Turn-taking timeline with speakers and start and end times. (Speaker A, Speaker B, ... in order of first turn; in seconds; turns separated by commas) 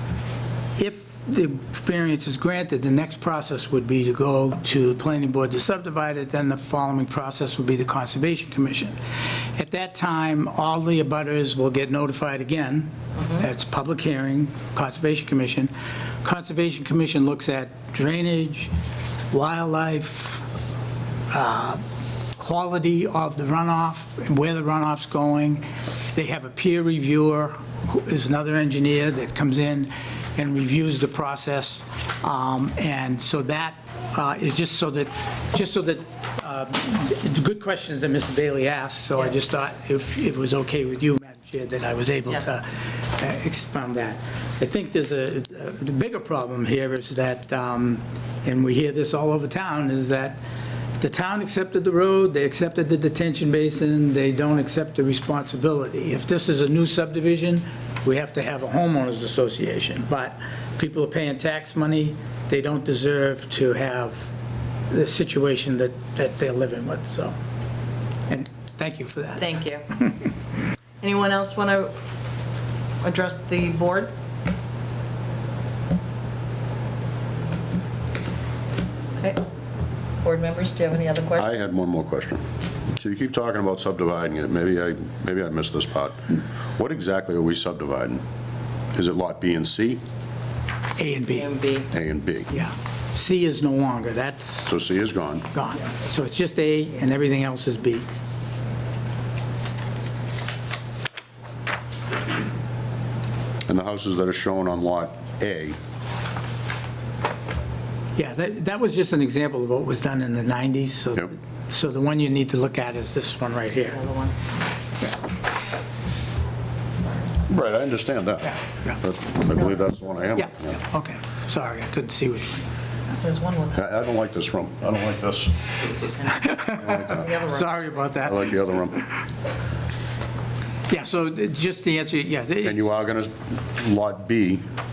Speaker A: 0.8-9.0, Speaker A: 9.6-15.7, Speaker B: 13.2-13.4, Speaker A: 16.2-18.7, Speaker A: 19.3-20.5, Speaker A: 21.3-21.8, Speaker A: 22.4-50.4, Speaker A: 51.0-64.3, Speaker A: 64.9-67.3, Speaker A: 68.3-69.5, Speaker B: 69.4-70.0, Speaker B: 71.0-71.9, Speaker B: 73.0-74.1, Speaker B: 80.2-81.5, Speaker C: 81.4-88.2, Speaker C: 88.9-90.0, Speaker A: 91.0-91.5, Speaker B: 91.3-91.9, Speaker C: 91.9-92.5, Speaker A: 92.5-94.8, Speaker C: 94.7-95.5, Speaker A: 95.5-98.0, Speaker C: 103.7-105.8, Speaker A: 108.2-114.0, Speaker B: 113.7-114.4, Speaker C: 117.5-120.8, Speaker A: 118.4-119.0, Speaker A: 120.4-122.7, Speaker B: 123.2-123.8, Speaker C: 123.7-125.8, Speaker A: 126.4-128.5, Speaker B: 126.8-128.3, Speaker C: 126.8-127.3, Speaker C: 128.2-129.1, Speaker A: 130.9-132.9, Speaker C: 132.6-134.7